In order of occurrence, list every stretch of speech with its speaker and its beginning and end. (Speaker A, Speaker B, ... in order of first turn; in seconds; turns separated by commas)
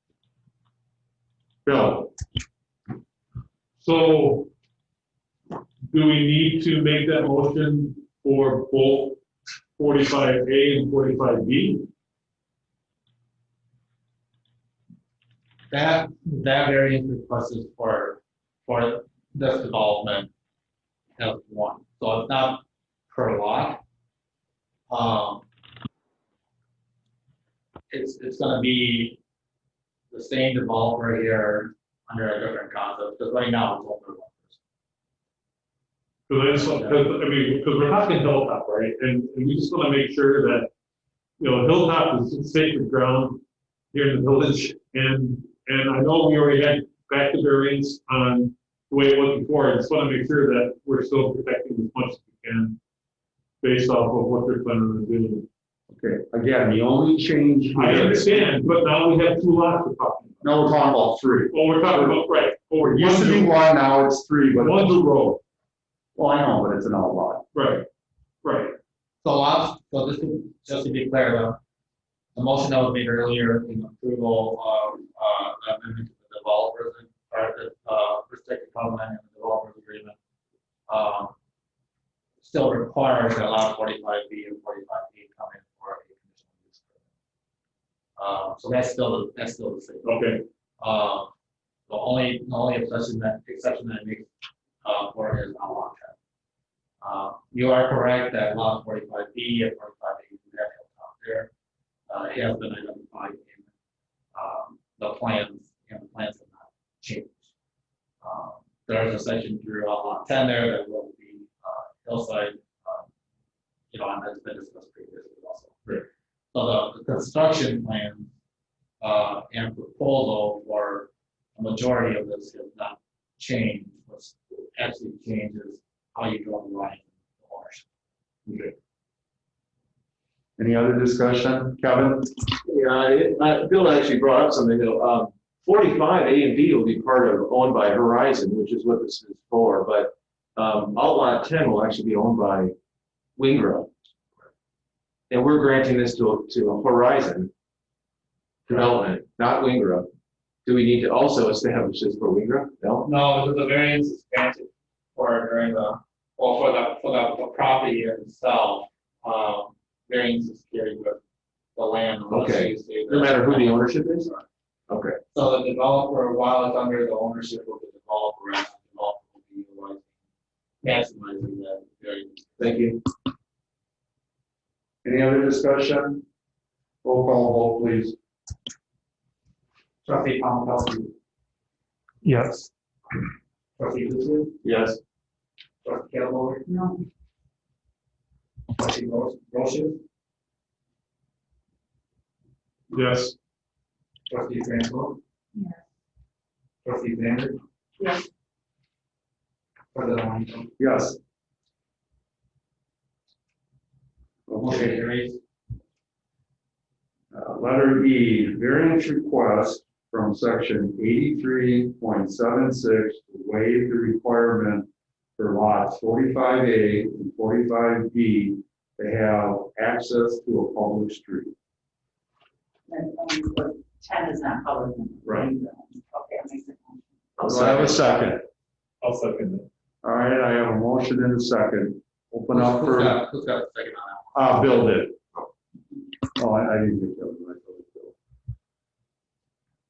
Speaker A: 1.6-2.1, Speaker B: 3.8-4.5, Speaker B: 5.9-9.2, Speaker B: 9.8-11.9, Speaker C: 15.7-20.3, Speaker C: 21.2-23.8, Speaker C: 24.9-25.4, Speaker C: 27.9-29.2, Speaker C: 30.1-34.5, Speaker B: 36.3-40.7, Speaker C: 36.5-37.0, Speaker B: 41.4-43.4, Speaker B: 43.9-52.8, Speaker B: 53.6-55.5, Speaker A: 55.9-58.6, Speaker B: 57.7-60.5, Speaker A: 60.4-62.2, Speaker B: 61.5-63.5, Speaker A: 62.8-65.0, Speaker B: 64.6-65.4, Speaker A: 66.2-67.4, Speaker B: 67.5-67.9, Speaker B: 68.4-68.8, Speaker C: 69.2-71.6, Speaker C: 72.3-80.2, Speaker C: 80.9-81.3, Speaker C: 82.4-86.9, Speaker C: 88.2-90.2, Speaker B: 90.0-90.4, Speaker C: 90.8-91.3, Speaker C: 91.9-94.3, Speaker C: 94.8-96.2, Speaker C: 97.0-101.5, Speaker C: 102.1-103.7, Speaker C: 104.3-107.5, Speaker C: 108.2-113.1, Speaker C: 113.9-118.3, Speaker C: 119.0-127.8, Speaker A: 128.5-128.7, Speaker A: 130.6-132.3, Speaker D: 132.6-142.7, Speaker D: 143.4-143.9, Speaker D: 145.3-147.5, Speaker D: 148.7-150.1, Speaker D: 150.7-153.1, Speaker C: 153.1-161.2, Speaker C: 161.8-164.4, Speaker D: 162.3-164.3, Speaker D: 164.9-165.2, Speaker C: 165.3-170.0, Speaker C: 170.8-172.8, Speaker D: 172.6-173.0, Speaker A: 175.0-176.2, Speaker A: 177.0-178.2, Speaker C: 180.0-181.1, Speaker B: 182.2-182.6, Speaker C: 183.8-184.6, Speaker D: 184.6-185.0, Speaker C: 185.8-186.6, Speaker E: 186.7-187.0, Speaker C: 188.7-190.0, Speaker B: 192.9-193.3, Speaker C: 194.3-195.2, Speaker E: 195.5-195.8, Speaker C: 196.8-197.6, Speaker E: 198.0-198.3, Speaker C: 199.9-200.7, Speaker A: 200.8-201.2, Speaker A: 204.5-205.0, Speaker C: 204.6-205.4, Speaker A: 207.3-221.5, Speaker E: 222.9-227.0, Speaker A: 225.2-225.5, Speaker D: 227.4-228.0, Speaker A: 227.4-228.5, Speaker B: 229.0-229.7, Speaker A: 230.0-233.2, Speaker C: 232.5-234.3, Speaker A: 234.3-235.2, Speaker A: 236.3-238.2